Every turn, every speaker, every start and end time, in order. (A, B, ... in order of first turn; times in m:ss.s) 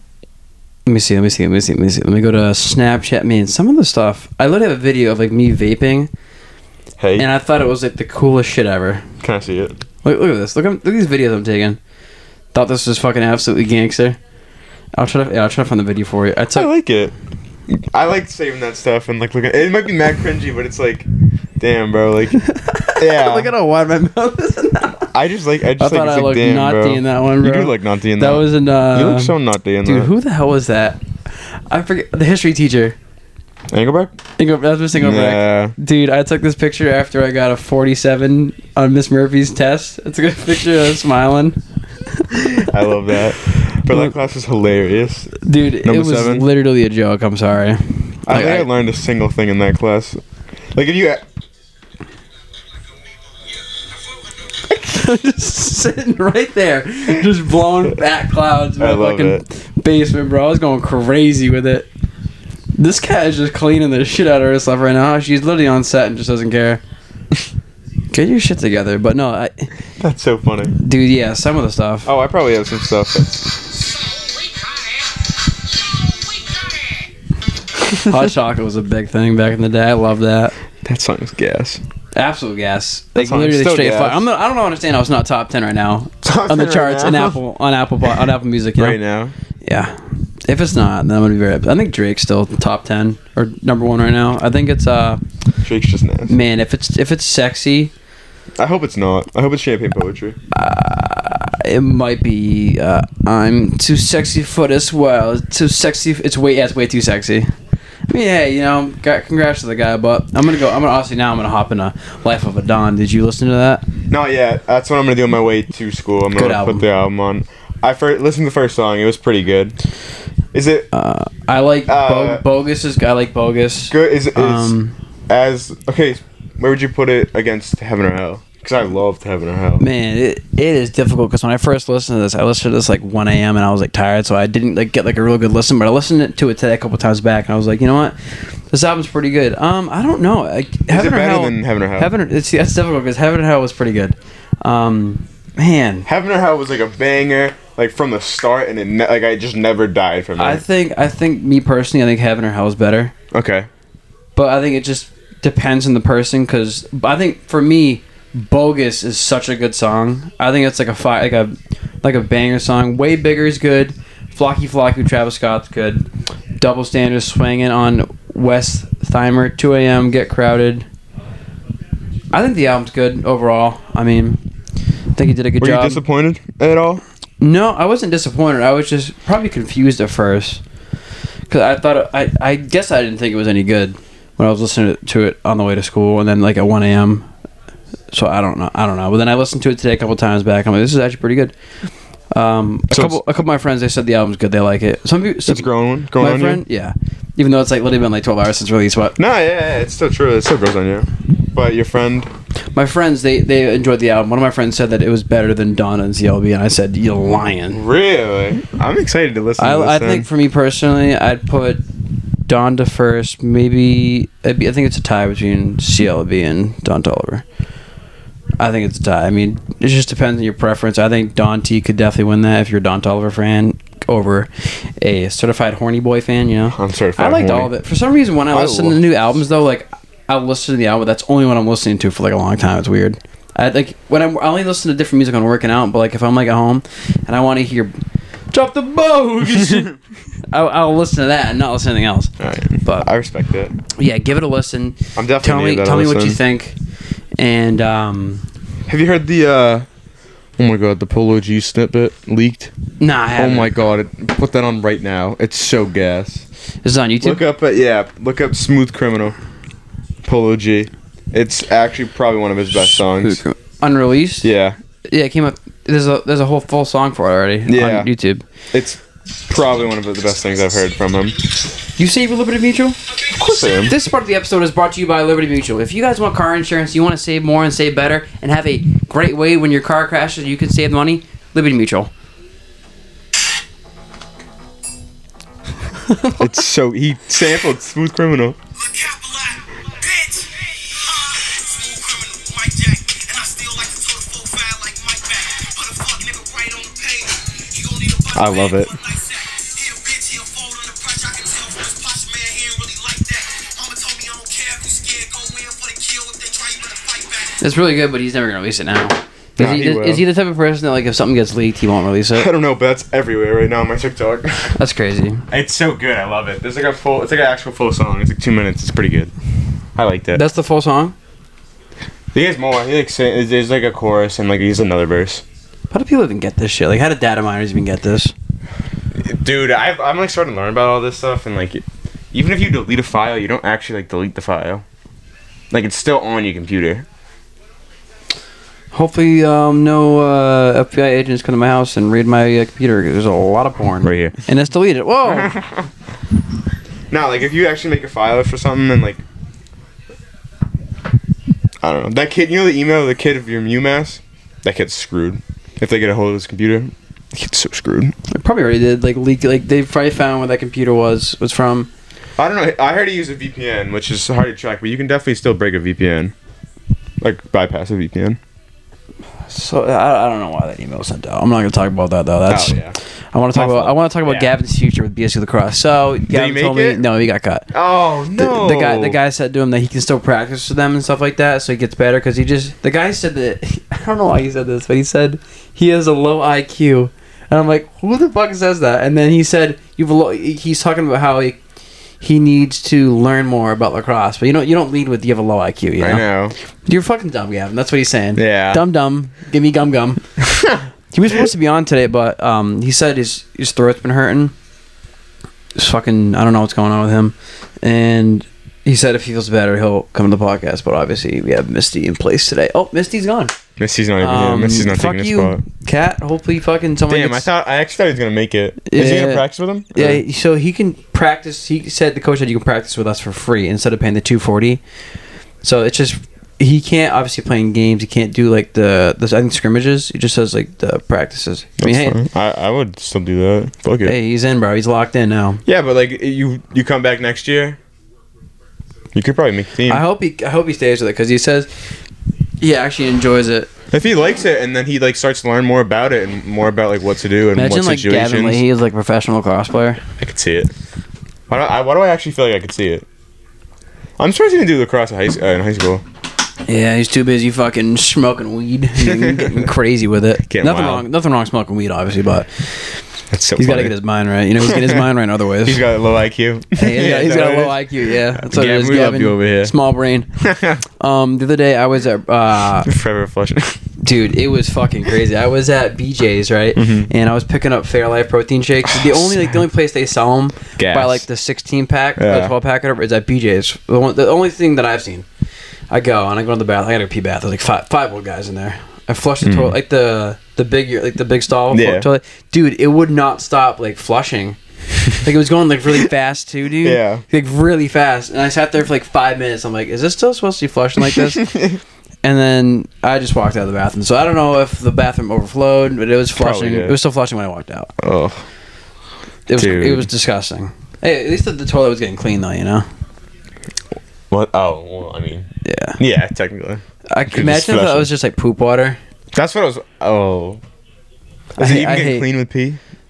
0:00.9-0:06.1 A
0:07.0-0:07.3 B
0:07.2-0:09.1 A
0:09.2-0:09.8 B
0:10.0-0:11.8 A
0:12.5-0:14.2 A
0:15.0-0:16.7 A
0:16.6-0:17.1 B
0:17.7-0:21.1 B
0:21.6-0:22.4 B
0:22.4-0:25.1 A
0:23.0-0:23.5 B
0:25.1-0:30.1 B
0:25.8-0:31.0 A
0:31.7-0:33.0 A
0:33.7-0:34.1 B
0:34.4-0:42.3 A
0:35.0-0:35.8 B
0:42.3-0:46.5 B
0:45.4-0:48.7 A
0:48.3-0:50.2 B
0:50.7-0:51.2 B
0:54.7-1:01.9 A
0:58.8-0:59.4 B
1:02.8-1:06.8 A
1:08.1-1:09.7 A
1:10.0-1:10.8 B
1:10.8-1:12.1 A
1:12.1-1:13.6 B
1:18.0-1:20.5 A
1:20.8-1:21.8 B
1:22.2-1:29.0 A
1:23.2-1:24.2 B
1:26.2-1:27.4 B
1:28.8-1:29.3 B
1:29.6-1:35.2 A
1:35.6-1:36.4 B
1:36.3-1:37.9 A
1:38.6-1:40.4 B
1:40.5-1:47.5 A
1:48.1-1:53.9 A
1:54.1-1:59.8 B
1:56.4-1:56.8 A
2:00.5-2:00.9 B
2:00.9-2:05.0 A
2:01.9-2:02.4 B
2:03.9-2:04.8 B
2:05.3-2:09.8 B
2:09.8-2:18.2 A
2:18.7-2:26.1 A
2:20.9-2:22.1 B
2:26.1-2:30.6 B
2:30.4-2:33.1 A
2:33.3-2:33.7 B
2:34.4-2:46.1 A
2:46.6-2:50.9 A
2:52.3-2:54.4 A
2:55.2-2:56.0 A
2:55.6-2:57.0 B
2:57.4-3:00.6 A
3:01.5-3:07.3 A
3:08.1-3:11.6 A
3:12.3-3:19.2 A
3:12.9-3:13.2 B
3:15.5-3:16.6 B
3:19.2-3:22.3 B
3:22.7-3:27.8 A
3:27.7-3:30.3 B
3:29.6-3:31.8 A
3:32.5-3:37.4 A
3:38.6-3:58.0 A
3:46.8-3:47.7 B
3:48.5-3:49.1 B
3:58.5-4:00.0 A
4:00.5-4:02.3 A
4:02.4-4:03.8 B
4:03.9-4:06.8 A
4:05.2-4:06.4 B
4:07.4-4:08.4 A
4:08.9-4:09.9 B
4:10.6-4:12.7 B
4:13.0-4:13.7 A
4:13.4-4:16.4 B
4:16.8-4:17.4 A
4:17.2-4:19.4 B
4:20.2-4:23.4 B
4:23.0-4:24.5 A
4:24.4-4:24.8 B
4:25.1-4:28.4 A
4:27.7-4:28.1 B
4:28.7-4:31.4 B
4:32.0-4:33.0 A
4:33.3-4:34.0 B
4:33.7-4:42.1 A
4:46.0-4:46.5 A
4:46.4-4:48.6 B
4:48.8-5:07.6 C
4:58.4-4:59.0 B
5:07.6-5:12.5 A
5:09.6-5:10.2 B
5:12.3-5:14.8 B
5:14.8-5:15.4 A
5:15.5-5:19.3 B
5:20.0-5:20.4 B
5:20.3-5:21.2 A
5:22.3-5:25.4 B
5:25.9-5:28.3 A
5:29.2-5:34.8 B
5:35.7-5:37.1 B
5:38.9-5:45.6 A
5:44.0-5:44.4 B
5:47.1-5:49.2 B
5:51.8-5:58.2 B
5:58.3-6:01.9 A
6:02.4-6:06.3 B
6:07.2-6:08.4 B
6:09.5-6:12.8 A
6:12.5-6:13.0 B
6:13.3-6:17.7 A
6:13.5-6:14.5 B
6:16.2-6:17.0 B
6:17.7-6:19.2 B
6:18.4-6:31.6 A
6:32.2-6:36.3 A
6:36.0-6:36.5 B
6:36.9-6:40.4 A
6:38.4-6:38.8 B
6:40.5-6:40.8 B
6:41.1-6:44.5 A
6:45.8-6:53.6 A
6:53.8-6:55.6 B
6:54.2-6:57.5 A
6:57.1-7:00.2 B
6:58.9-7:04.8 A
7:05.6-7:12.2 A
7:11.8-7:14.2 B
7:14.0-7:15.6 A
7:15.7-7:17.8 B
7:19.1-7:20.0 B
7:19.9-7:21.7 A
7:22.6-7:23.7 A
7:23.9-7:28.6 B
7:27.6-7:30.0 A
7:30.2-7:30.7 B
7:31.5-7:33.1 B
7:34.2-7:36.0 B
7:36.7-7:43.0 A
7:39.0-7:39.6 B
7:40.4-7:41.0 B
7:43.3-7:44.0 B
7:43.6-7:45.8 A
7:44.6-7:45.0 B
7:45.6-7:49.7 B
7:46.8-7:50.3 A
7:50.4-7:50.8 B
7:51.0-7:52.9 A
7:52.8-7:53.8 B
7:54.0-8:05.3 A
7:56.8-7:57.1 B
7:58.9-7:59.5 B
8:00.8-8:01.2 B
8:02.2-8:02.6 B
8:05.9-8:14.6 A
8:09.4-8:09.8 B
8:11.7-8:12.1 B
8:15.1-8:21.5 A
8:16.8-8:17.2 B
8:21.4-8:21.8 B
8:22.2-8:27.9 A
8:26.4-8:27.0 B
8:28.0-8:28.4 B
8:29.5-8:32.9 A
8:29.6-8:30.1 B
8:34.3-8:35.5 B
8:35.6-8:36.0 A
8:36.0-8:38.1 B
8:37.1-8:39.0 A
8:39.3-8:40.6 B
8:41.6-8:42.3 A
8:41.6-8:42.8 B